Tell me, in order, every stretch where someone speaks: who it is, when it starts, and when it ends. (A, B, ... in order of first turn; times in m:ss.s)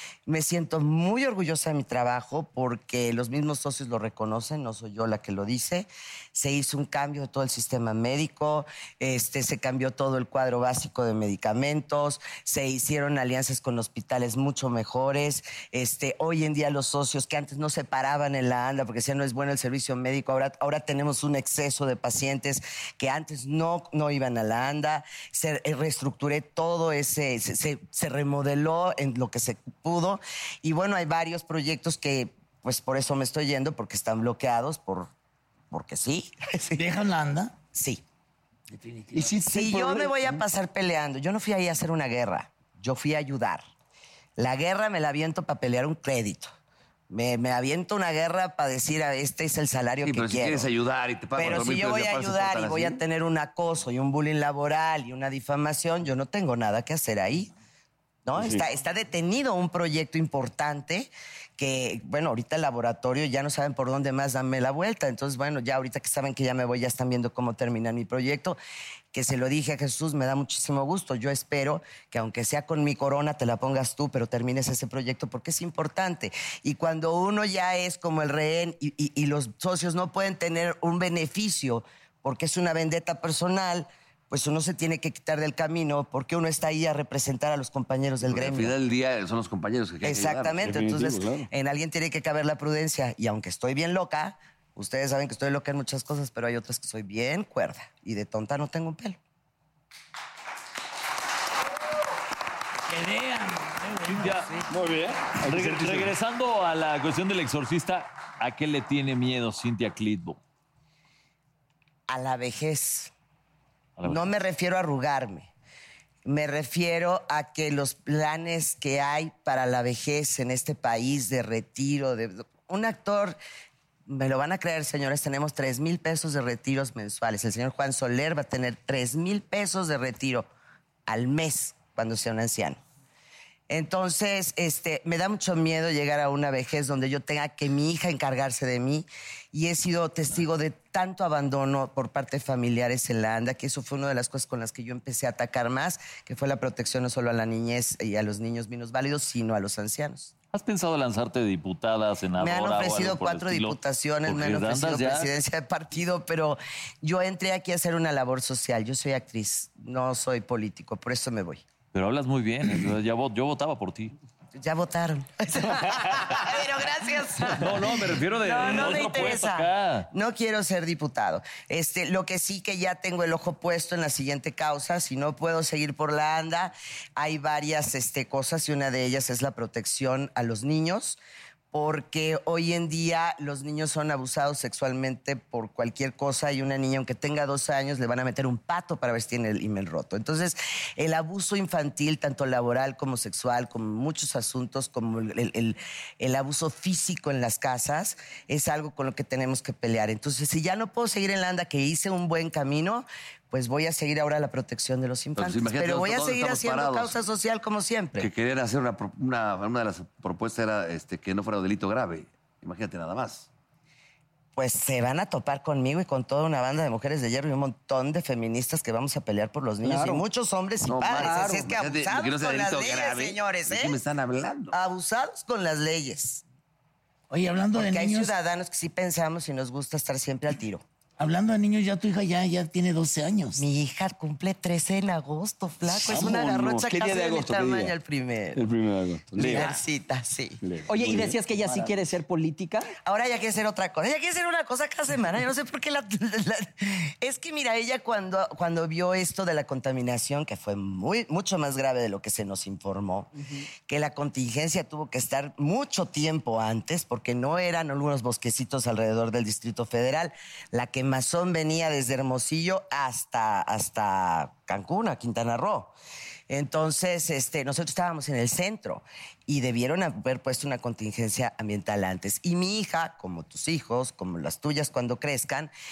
0:00.3-0:35.1 A
0:35.7-0:36.9 A
0:36.8-0:37.6 B
0:37.7-0:38.0 A
0:38.7-0:39.4 B
0:39.1-0:40.4 C
0:39.4-0:43.6 A
0:44.4-0:46.5 A
0:47.1-0:50.7 A
0:50.0-0:53.0 D
0:51.3-0:57.5 A
0:58.2-1:08.6 A
0:58.4-0:58.6 C
1:09.1-1:28.8 A
1:28.2-1:30.7 D
1:30.0-1:39.2 A
1:30.6-1:31.5 C
1:42.9-1:44.7 B
1:44.1-1:44.5 E
1:44.7-1:46.1 C
1:45.4-1:50.4 E
1:52.1-1:53.1 A
1:54.0-1:54.4 E
1:54.0-1:55.5 A
1:56.2-2:03.4 A
2:04.1-2:10.5 A
2:11.1-2:12.8 A
2:13.7-2:30.3 A
2:30.5-2:35.3 E
2:32.4-2:41.6 A
2:41.9-2:44.1 E
2:44.6-3:01.2 A
2:45.8-2:46.4 E
2:47.5-2:50.1 E
3:01.7-3:28.3 A
3:25.4-3:27.1 D
3:28.2-3:33.5 D
3:34.6-3:44.0 A
3:39.8-3:40.2 F
3:40.9-3:44.7 D
3:41.2-3:41.7 F
3:44.7-3:46.4 A
3:47.3-3:48.3 B
3:47.7-3:50.8 A
3:51.2-3:53.6 B
3:53.6-3:58.6 A
3:55.9-3:56.4 B
3:56.0-3:57.9 C
3:58.6-3:59.8 C
3:59.4-4:00.6 A
3:59.4-3:59.8 B
4:00.6-4:01.4 C
4:00.9-4:02.9 F
4:01.5-4:02.0 B
4:03.0-4:13.3 A
4:13.4-4:13.6 F
4:13.9-4:25.9 A
4:26.5-4:35.7 A